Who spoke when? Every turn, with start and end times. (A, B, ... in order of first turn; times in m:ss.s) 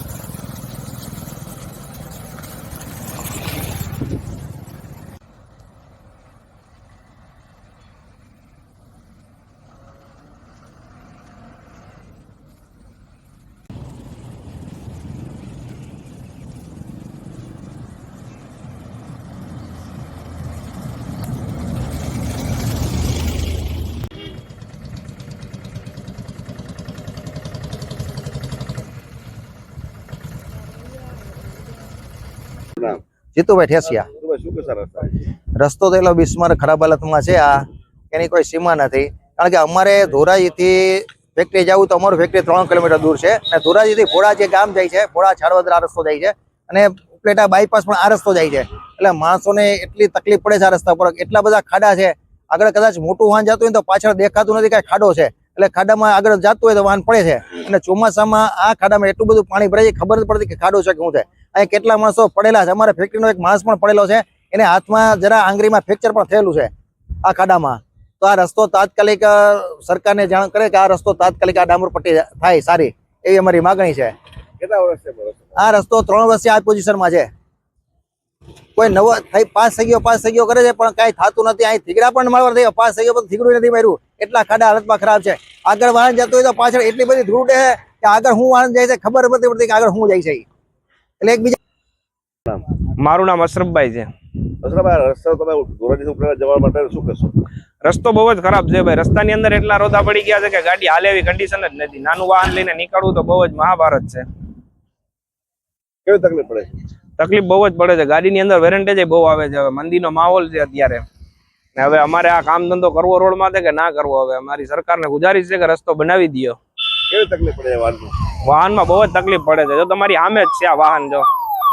0:33.4-0:34.1 A
0:34.1-0:35.2 B
0:35.6-1:06.7 A
1:07.2-1:14.1 A
1:14.6-1:15.6 B
1:15.6-1:17.3 A
1:18.8-1:30.4 A
1:31.2-1:31.6 A
1:32.8-1:34.1 C
1:34.6-1:37.4 B
1:37.8-1:44.2 C
1:46.1-1:46.7 B
1:47.2-1:51.0 C
1:51.8-1:56.6 C
1:57.1-1:58.1 B
1:58.4-2:01.3 C